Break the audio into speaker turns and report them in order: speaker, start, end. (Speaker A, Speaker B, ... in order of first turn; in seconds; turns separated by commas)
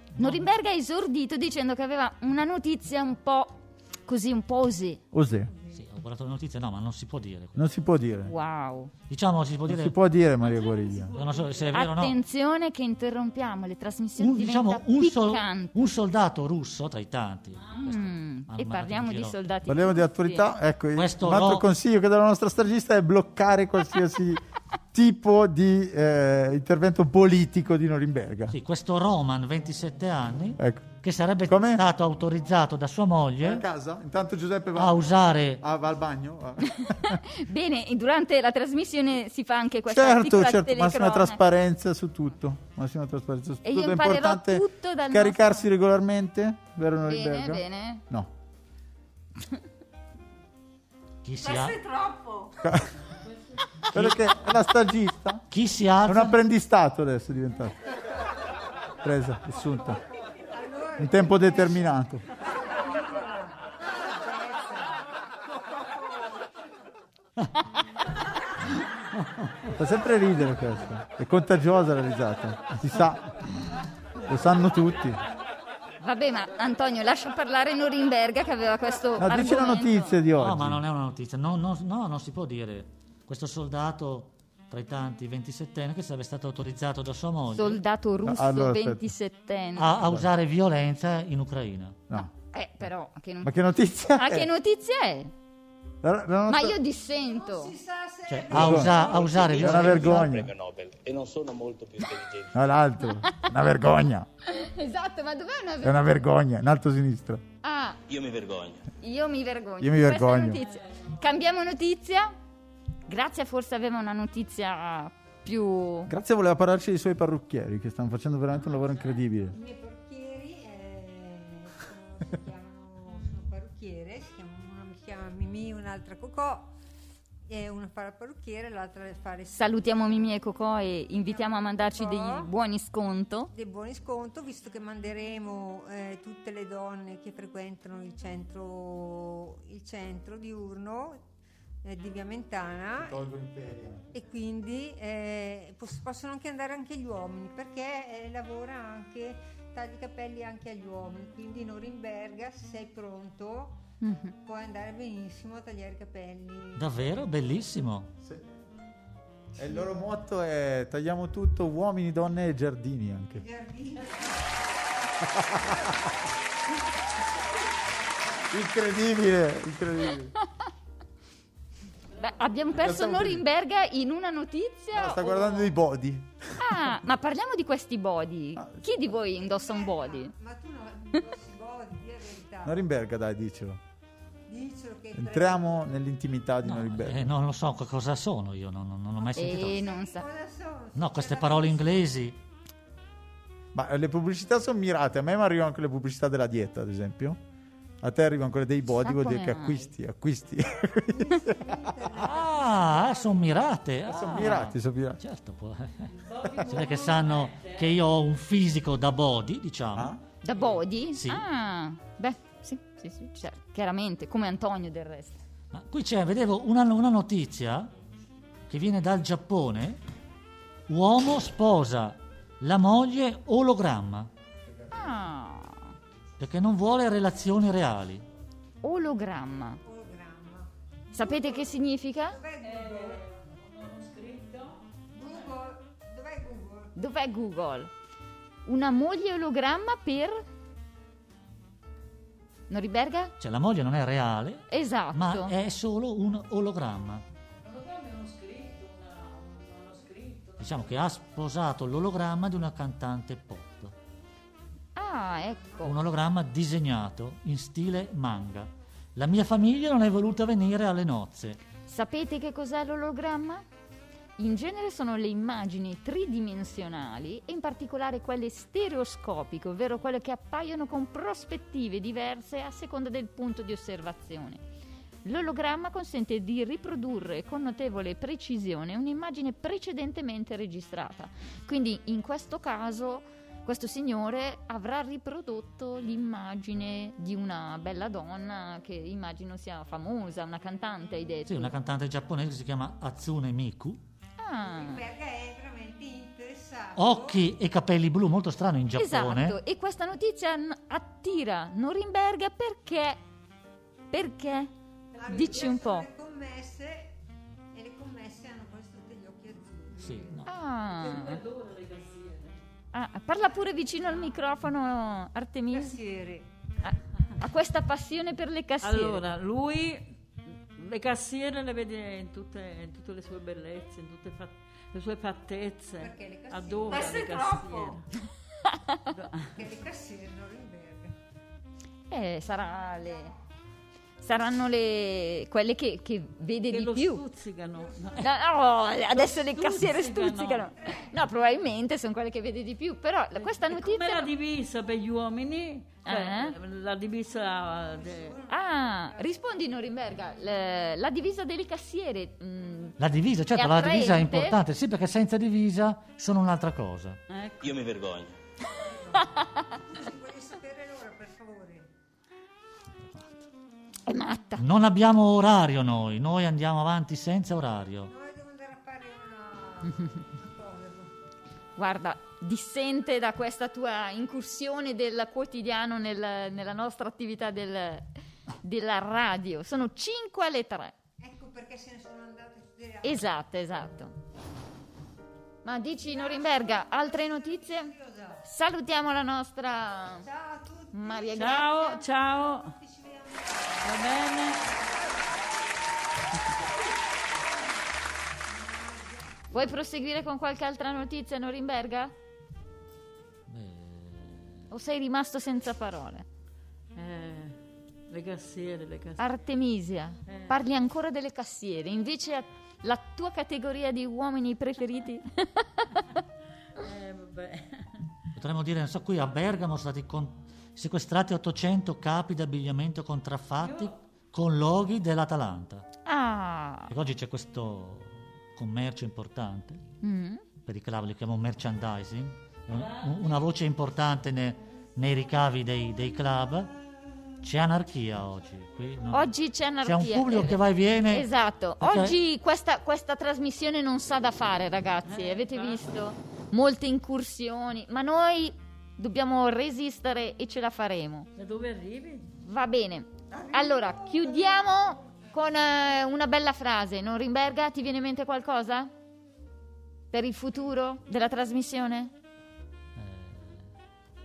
Speaker A: 0.2-0.4, Speaker B: 0.2-5.0, Speaker C: 5.1-5.5, Speaker A: 5.7-7.7, Speaker C: 7.5-8.3, Speaker B: 8.2-8.9, Speaker A: 9.1-9.9, Speaker C: 9.7-11.2, Speaker D: 10.4-11.8, Speaker A: 11.1-12.2, Speaker B: 11.7-15.8, Speaker A: 14.2-19.3, Speaker B: 17.8-20.5, Speaker C: 19.7-24.4, Speaker A: 20.9-21.6, Speaker C: 24.9-28.6, Speaker A: 28.5-33.6, Speaker C: 30.6-30.9, Speaker C: 31.4-31.8, Speaker C: 33.4-37.2, Speaker A: 34.7-35.6, Speaker B: 36.8-41.4, Speaker C: 39.9-48.3, Speaker B: 43.6-45.7, Speaker B: 47.0-48.0, Speaker A: 51.2-51.8, Speaker E: 51.4-52.5, Speaker C: 52.6-52.9, Speaker C: 53.8-55.4, Speaker A: 53.9-54.3, Speaker A: 55.5-56.4, Speaker C: 56.0-57.8, Speaker C: 59.0-60.0, Speaker E: 60.5-65.0, Speaker C: 61.0-62.2, Speaker C: 69.7-73.4, Speaker C: 74.2-75.2, Speaker B: 76.0-80.2, Speaker C: 79.2-80.8, Speaker A: 80.4-87.8, Speaker B: 87.5-90.0, Speaker C: 88.2-89.0, Speaker A: 89.8-92.0, Speaker C: 90.0-90.3, Speaker B: 92.5-93.5, Speaker C: 93.4-94.5, Speaker B: 94.2-95.3, Speaker C: 96.0-96.8, Speaker B: 96.5-97.7, Speaker E: 97.3-99.4, Speaker A: 98.3-100.3, Speaker C: 98.5-100.5, Speaker F: 99.0-102.6, Speaker C: 102.5-104.3, Speaker B: 103.2-103.5, Speaker B: 104.4-106.0, Speaker C: 105.8-107.4, Speaker B: 107.6-108.0, Speaker F: 108.1-108.8, Speaker B: 109.0-112.3, Speaker C: 109.8-110.6, Speaker B: 113.1-116.1, Speaker C: 116.1-119.5, Speaker E: 119.5-126.7, Speaker E: 127.5-130.1, Speaker B: 129.5-133.5, Speaker E: 131.2-132.5, Speaker E: 133.5-141.2, Speaker E: 141.8-143.1, Speaker C: 142.9-144.1, Speaker E: 144.1-153.8, Speaker B: 154.0-154.3, Speaker E: 154.4-156.9, Speaker A: 156.7-158.1, Speaker C: 159.6-163.4, Speaker E: 163.3-164.6, Speaker C: 165.2-166.0, Speaker C: 168.5-170.3, Speaker B: 172.1-175.7, Speaker C: 172.7-173.4, Speaker C: 174.9-177.0, Speaker B: 176.6-180.3, Speaker E: 179.4-182.8, Speaker C: 182.6-183.8, Speaker E: 184.5-185.8, Speaker C: 185.1-187.3, Speaker A: 186.6-189.8, Speaker E: 189.2-192.1, Speaker B: 189.3-190.2, Speaker A: 190.9-192.4, Speaker C: 193.7-197.4, Speaker C: 198.0-201.9, Speaker B: 198.9-199.9, Speaker E: 201.1-203.5, Speaker A: 202.2-210.1, Speaker C: 204.1-205.2, Speaker D: 206.1-207.8, Speaker C: 209.9-210.2, Speaker B: 210.4-215.4, Speaker A: 211.1-211.4, Speaker A: 215.7-217.9, Speaker A: 218.7-220.0, Speaker A: 220.9-224.3, Speaker B: 224.9-225.9, Speaker A: 226.4-228.2, Speaker B: 228.8-229.8, Speaker E: 229.8-231.6, Speaker B: 231.1-232.4, Speaker E: 232.3-233.2, Speaker D: 232.6-234.9, Speaker E: 235.1-236.9, Speaker B: 236.9-237.9, Speaker B: 238.7-240.4, Speaker B: 242.7-243.3, Speaker A: 243.4-247.2, Speaker B: 244.7-245.5, Speaker D: 247.6-250.9, Speaker A: 250.6-253.9, Speaker B: 254.9-256.0, Speaker A: 255.8-261.6, Speaker B: 261.8-263.6, Speaker B: 264.4-274.6, Speaker B: 275.2-291.8, Speaker A: 291.5-294.0, Speaker B: 294.4-295.0, Speaker E: 294.6-297.4, Speaker A: 296.9-299.6, Speaker B: 298.9-303.2, Speaker B: 304.1-304.7, Speaker E: 305.1-307.1, Speaker B: 305.2-306.1, Speaker D: 305.3-305.7, Speaker E: 307.7-310.5, Speaker A: 309.9-310.5, Speaker B: 310.4-311.4, Speaker D: 310.9-312.6, Speaker B: 312.9-316.0, Speaker E: 315.7-316.5, Speaker B: 316.8-319.2, Speaker D: 318.8-320.1, Speaker D: 320.7-328.1, Speaker E: 326.0-328.0, Speaker D: 329.1-329.5, Speaker E: 329.5-331.1, Speaker B: 332.1-333.3, Speaker B: 334.2-337.2, Speaker D: 336.7-338.3, Speaker E: 337.8-338.3, Speaker B: 338.2-344.3, Speaker D: 339.1-340.7, Speaker E: 340.8-341.1, Speaker D: 343.4-348.4, Speaker B: 346.0-346.6, Speaker E: 347.7-349.4, Speaker B: 348.5-353.0, Speaker A: 353.0-357.2, Speaker B: 353.5-354.6, Speaker D: 357.3-357.8, Speaker F: 357.6-358.4, Speaker E: 358.7-361.9, Speaker B: 364.1-364.6, Speaker A: 364.6-368.1, Speaker E: 368.1-371.1, Speaker B: 371.8-378.1, Speaker B: 378.6-380.9, Speaker E: 381.2-383.2, Speaker B: 383.0-384.1, Speaker B: 385.6-390.3, Speaker E: 386.0-388.4, Speaker E: 390.2-394.0, Speaker B: 390.9-392.0, Speaker D: 391.3-392.7, Speaker D: 393.8-394.7, Speaker E: 398.5-399.5, Speaker B: 399.5-402.1, Speaker A: 403.5-404.7, Speaker B: 404.7-406.2, Speaker D: 406.9-409.2, Speaker B: 409.2-416.1, Speaker D: 410.3-410.6, Speaker D: 416.8-418.1, Speaker A: 418.4-425.9, Speaker D: 423.6-423.9, Speaker B: 426.0-426.9, Speaker A: 426.9-429.8, Speaker B: 430.0-430.4, Speaker A: 430.6-436.7, Speaker A: 437.4-442.2, Speaker B: 439.1-451.3, Speaker D: 445.1-445.8, Speaker D: 451.4-452.3, Speaker B: 452.4-458.9, Speaker E: 453.3-454.5, Speaker B: 460.1-462.1, Speaker A: 462.9-463.6